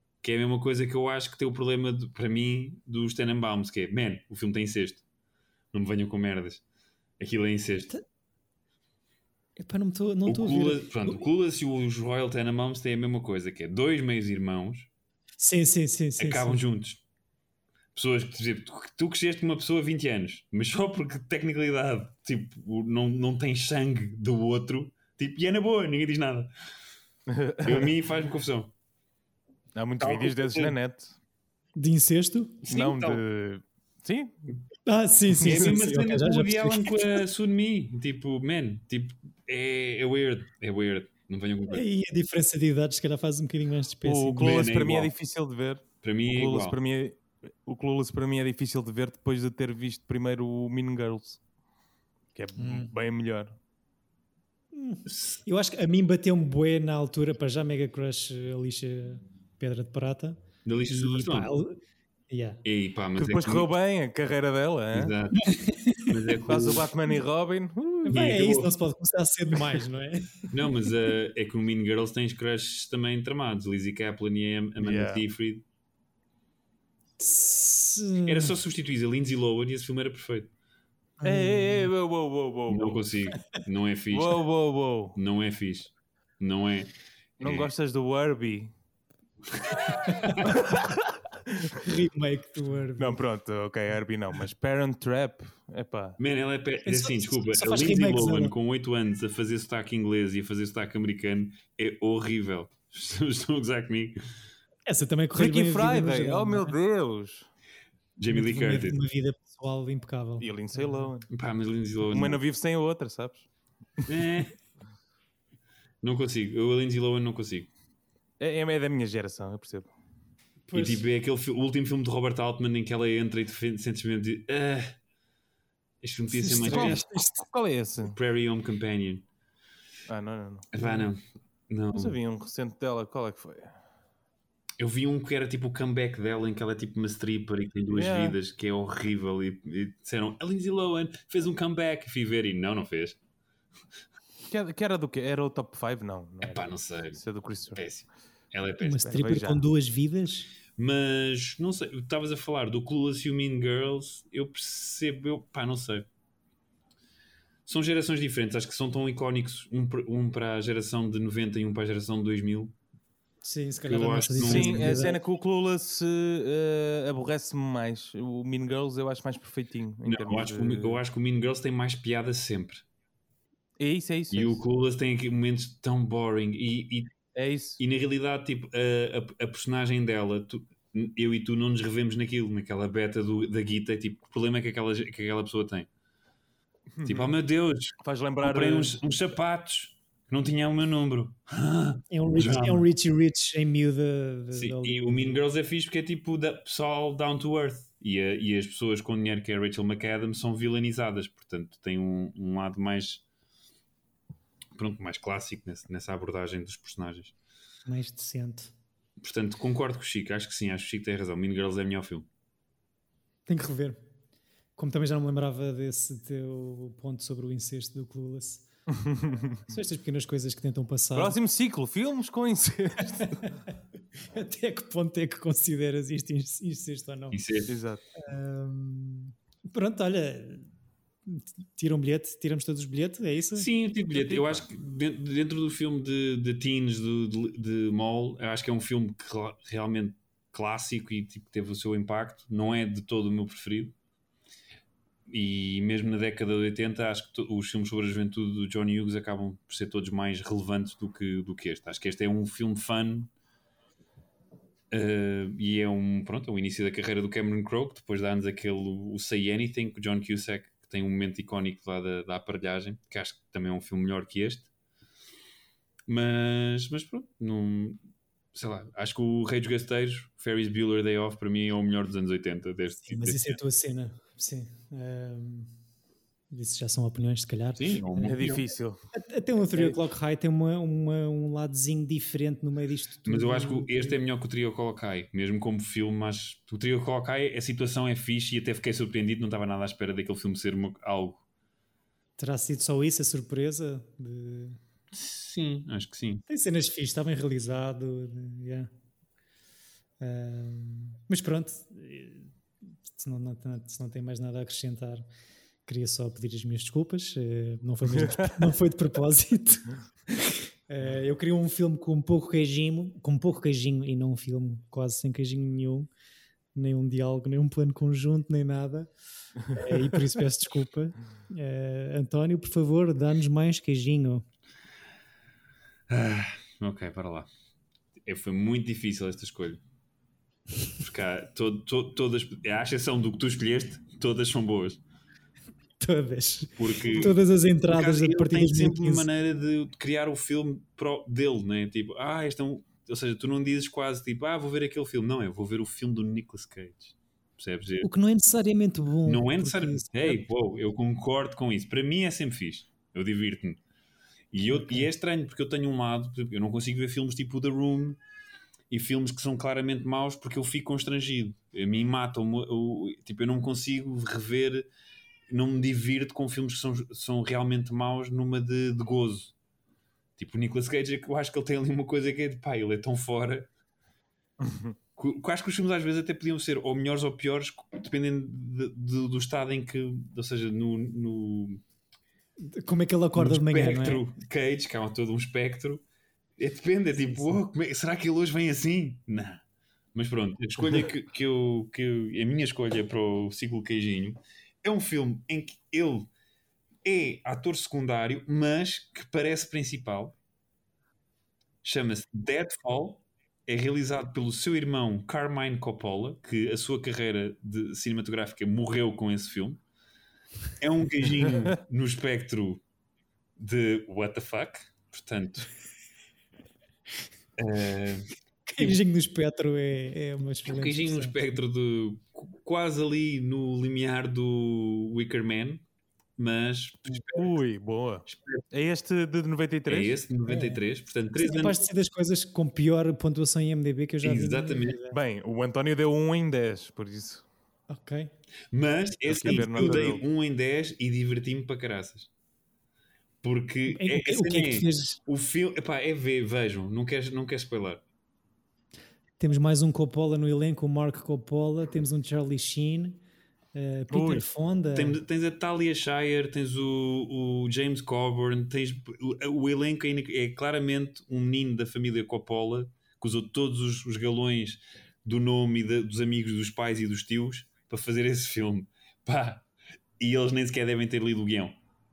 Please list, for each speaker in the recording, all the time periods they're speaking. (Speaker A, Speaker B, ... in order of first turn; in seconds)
Speaker A: 0.2-5.0, 5.7-6.6, 7.2-7.9, 10.2-14.9, 16.2-17.0, 17.9-26.5, 27.6-28.7, 30.0-30.8, 32.6-33.2, 35.4-41.8, 44.4-45.1, 46.0-46.8, 55.1-55.4, 60.6-61.5, 62.6-63.7, 64.9-66.9, 68.1-68.7, 70.5-75.6, 78.2-80.5, 82.7-84.4, 85.1-87.7, 90.2-90.5, 96.2-104.2, 108.2-109.0, 111.3-112.4, 114.0-114.5, 116.0-117.7, 120.7-125.0, 126.0-127.0, 128.0-129.2, 130.7-132.2, 134.8-143.2, 146.4-149.2, 150.8-156.1, 157.7-162.7, 163.9-165.0, 170.0-172.8, 174.3-177.2, 177.8-185.9, 187.0-192.8, 194.5-203.2, 204.7-207.3, 209.2-212.3, 227.3-227.7, 233.6-243.9, 245.3-253.3, 254.9-264.7, 266.1-268.0, 268.5-273.6, 277.8-278.6, 283.2-291.4, 295.1-296.4, 326.1-327.5, 328.2-329.8, 331.0-335.0, 336.8-337.3, 337.9-348.1, 349.2-353.8, 354.5-358.2, 358.9-364.9, 365.5-369.5, 370.4-373.7, 375.2-381.8, 383.4-386.0, 386.6-389.6, 390.1-396.3, 397.0-400.3, 401.8-409.8, 410.8-412.8, 413.6-415.7, 417.6-418.3, 420.6-425.8, 426.4-427.5, 428.3-428.6, 429.9-431.8, 434.2-434.9, 438.7-442.3, 443.4-448.0, 454.9-469.6, 470.2-471.7
Speaker B: 9.6-11.2, 15.4-16.6, 31.8-32.6, 34.9-37.2, 41.7-44.7, 52.6-52.9, 54.7-62.6, 65.4-66.1, 68.0-70.5, 77.2-78.5, 81.2-81.9, 90.0-90.5, 91.8-93.2, 96.8-98.5, 104.9-106.7, 108.3-111.1, 120.7-121.0, 126.3-127.4, 130.8-131.1, 148.8-150.5, 163.4-165.2, 192.1-195.3, 207.8-208.7, 213.4-214.0, 214.8-218.7, 219.6-221.4, 223.2-223.7, 224.2-227.4, 228.2-230.7, 231.2-233.7, 272.9-275.7, 276.5-278.6, 279.1-284.1, 292.4-294.8, 296.5-298.9, 300.2-302.5, 303.1-305.2, 305.9-316.1, 316.7-319.1, 319.6-324.4, 336.0-339.2, 348.0-350.4, 354.7-355.1, 382.6-384.2, 387.2-387.6, 418.7-421.3, 430.5-430.8, 431.3-435.2, 437.9-438.3, 443.9-445.2, 449.4-453.2, 453.7-455.2
Speaker C: 27.3-27.9, 29.7-31.1, 32.7-34.4, 35.5-35.8, 44.0-51.4, 52.3-53.5, 63.1-65.1, 66.5-68.3, 74.8-75.2, 81.2-83.0, 84.1-85.2, 87.4-88.7, 90.4-91.7, 93.0-96.2, 105.3-107.5, 110.4-111.3, 112.0-113.5, 118.4-119.9, 126.6-128.2, 130.1-130.7, 131.9-133.8, 137.9-138.4, 144.4-147.8, 149.0-149.7, 164.4-171.0, 173.8-174.6, 177.3-177.8, 186.9-187.3, 188.0-189.0, 218.9-219.5, 221.1-223.3, 227.7-228.0, 234.1-234.6, 278.1-279.0, 308.1-308.5, 374.6-374.9, 427.3-430.2, 435.1-437.4, 439.2-440.2, 454.1-454.4